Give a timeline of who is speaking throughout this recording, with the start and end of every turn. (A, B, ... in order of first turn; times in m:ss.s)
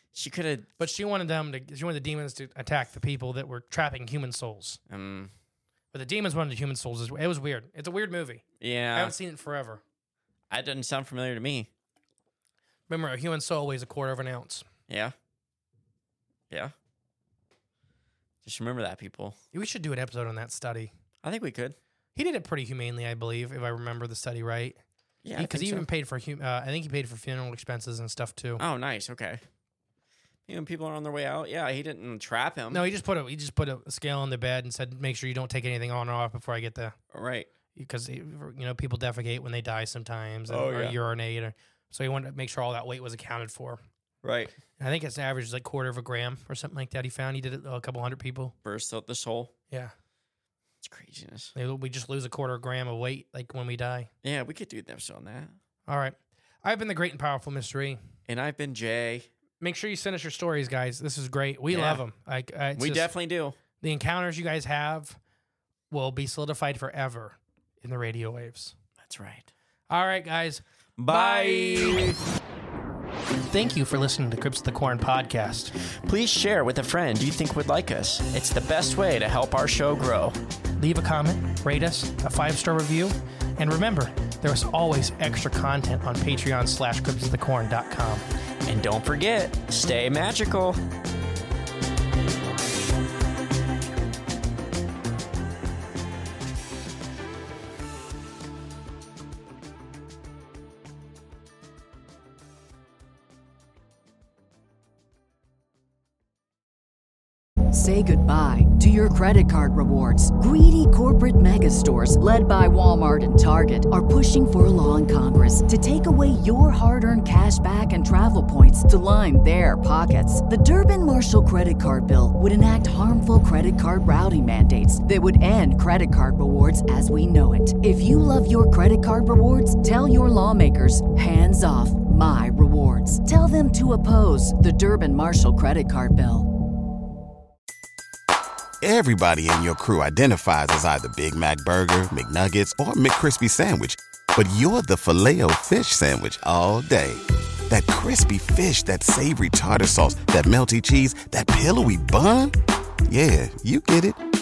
0:00.2-0:00.7 A
0:00.8-0:04.8 B
0:04.9-0:05.3 A
0:05.9-0:08.4 B
0:08.6-0:09.2 A
0:09.0-0:09.8 B
0:10.5-0:11.7 A
0:12.9-0:14.7 B
0:14.9-0:15.2 A
0:18.4-0:19.4 A
0:19.5-0:20.9 B
0:21.2-0:21.8 A
0:22.2-0:24.8 B
0:25.2-0:25.9 A
0:25.4-0:28.6 B
0:28.6-0:29.4 A
0:30.5-0:32.8 A
0:32.7-0:37.0 B
0:37.1-0:37.5 A
0:37.8-0:43.8 B
0:40.5-0:41.0 A
0:44.2-0:44.6 A
0:44.8-0:48.5 B
0:48.6-0:49.5 A
0:50.8-0:51.5 A
0:51.6-0:54.1 B
0:54.2-0:55.6 A
0:55.9-0:58.0 B
0:58.3-0:59.3 A
0:59.6-1:03.1 B
1:01.7-1:02.0 A
1:02.8-1:03.6 A
1:03.8-1:05.2 B
1:05.9-1:08.7 B
1:09.0-1:09.5 A
1:09.9-1:12.1 B
1:11.0-1:12.2 A
1:13.5-1:15.7 B
1:16.1-1:20.4 A
1:20.8-1:28.2 B
1:28.7-1:30.8 A
1:47.7-2:16.5 C
2:18.8-2:32.5 D
2:33.1-2:34.2 D